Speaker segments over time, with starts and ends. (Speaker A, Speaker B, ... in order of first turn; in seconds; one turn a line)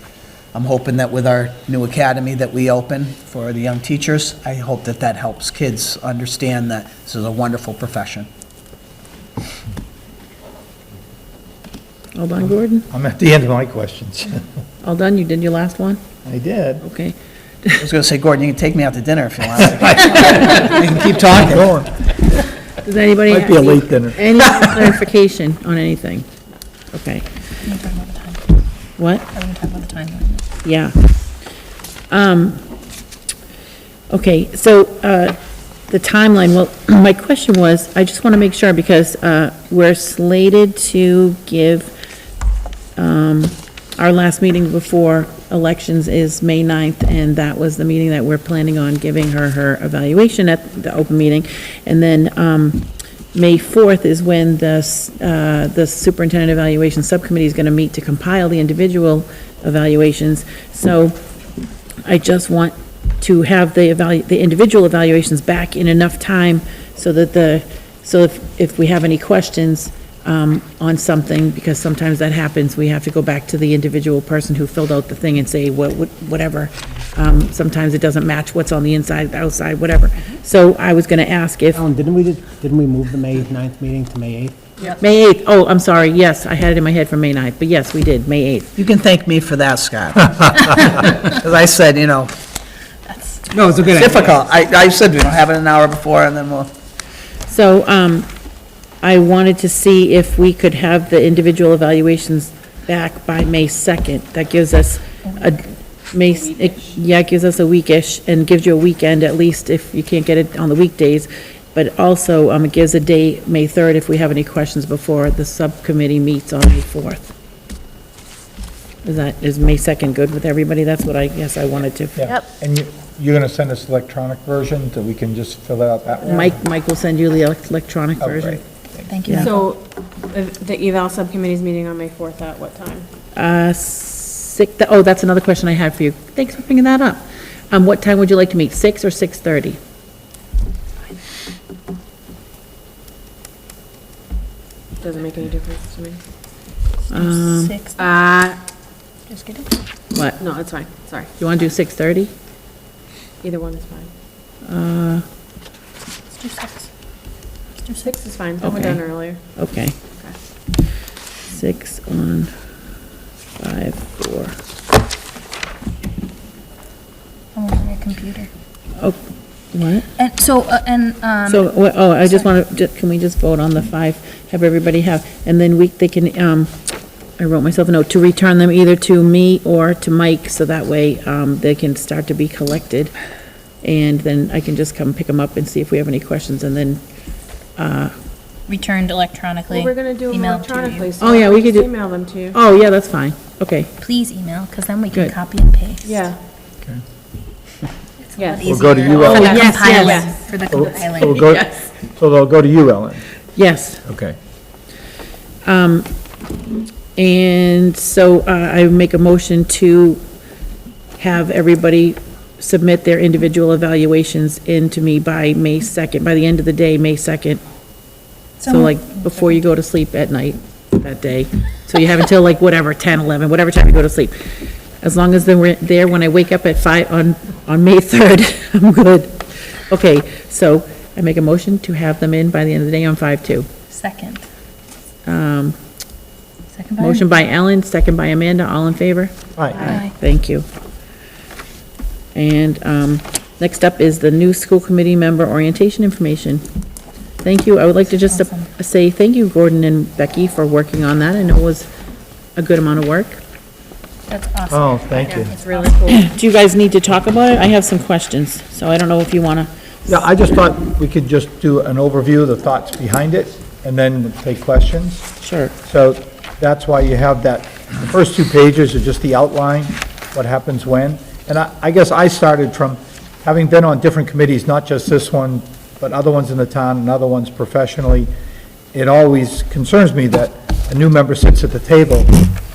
Speaker A: 0.5-8.3
Speaker B: 12.2-12.9
Speaker C: 12.9-14.4
Speaker B: 14.8-16.0
Speaker C: 16.2-16.9
Speaker B: 16.8-17.9
Speaker A: 17.8-21.7
Speaker C: 21.3-21.9
Speaker B: 22.8-26.3
Speaker C: 23.3-24.4
Speaker B: 26.9-27.3
Speaker D: 27.6-28.5
Speaker B: 29.0-29.3
Speaker D: 29.3-30.4
Speaker B: 30.6-31.2
Speaker B: 32.1-32.6
Speaker B: 34.1-35.4
Speaker B: 35.9-41.9
Speaker B: 43.0-61.2
Speaker B: 62.0-81.8
Speaker E: 81.7-84.6
Speaker B: 85.0-88.8
Speaker A: 88.8-92.3
Speaker D: 93.1-93.6
Speaker E: 93.5-94.4
Speaker A: 93.9-96.7
Speaker B: 97.5-98.3
Speaker B: 99.0-117.3
Speaker B: 119.0-122.3
Speaker C: 122.2-126.6
Speaker B: 126.2-128.6
Speaker C: 128.2-129.0
Speaker D: 129.1-129.7
Speaker B: 129.3-129.5
Speaker F: 129.4-133.1
Speaker B: 133.3-139.8
Speaker F: 145.0-146.2
Speaker B: 147.1-147.8
Speaker D: 147.1-148.1
Speaker F: 148.0-148.6
Speaker D: 149.3-149.8
Speaker B: 150.1-150.4
Speaker F: 150.4-151.3
Speaker B: 151.4-152.3
Speaker F: 153.4-154.1
Speaker B: 154.7-155.2
Speaker D: 156.3-156.9
Speaker D: 157.8-158.2
Speaker F: 158.0-159.4
Speaker B: 158.6-159.0
Speaker B: 159.6-159.9
Speaker B: 161.5-162.5
Speaker B: 163.6-164.6
Speaker D: 167.5-168.5
Speaker B: 169.7-170.1
Speaker D: 170.2-172.4
Speaker B: 171.5-176.7
Speaker B: 177.4-183.1
Speaker B: 183.8-187.0
Speaker B: 187.8-188.1
Speaker D: 188.7-191.1
Speaker F: 189.7-192.6
Speaker B: 191.2-191.9
Speaker B: 192.5-193.9
Speaker D: 194.0-196.3
Speaker F: 196.0-196.4
Speaker D: 198.2-201.5
Speaker F: 198.4-200.4
Speaker C: 198.7-199.7
Speaker B: 199.3-200.3
Speaker C: 200.7-203.2
Speaker F: 201.2-201.9
Speaker B: 203.6-204.0
Speaker C: 204.1-204.4
Speaker B: 205.6-206.1
Speaker B: 207.2-210.2
Speaker B: 211.2-217.6
Speaker D: 218.6-219.6
Speaker B: 218.6-224.5
Speaker B: 225.0-233.7
Speaker D: 233.9-234.4
Speaker B: 235.2-235.8
Speaker D: 236.7-237.3
Speaker B: 237.0-240.7
Speaker C: 239.6-240.0
Speaker D: 239.8-240.1
Speaker B: 242.3-246.6
Speaker B: 247.4-251.9
Speaker D: 248.2-248.7
Speaker B: 252.6-253.4
Speaker D: 254.3-256.2
Speaker C: 254.7-255.6
Speaker B: 256.0-260.2
Speaker C: 260.1-265.2
Speaker B: 265.4-265.7
Speaker C: 265.9-278.3
Speaker C: 278.9-282.4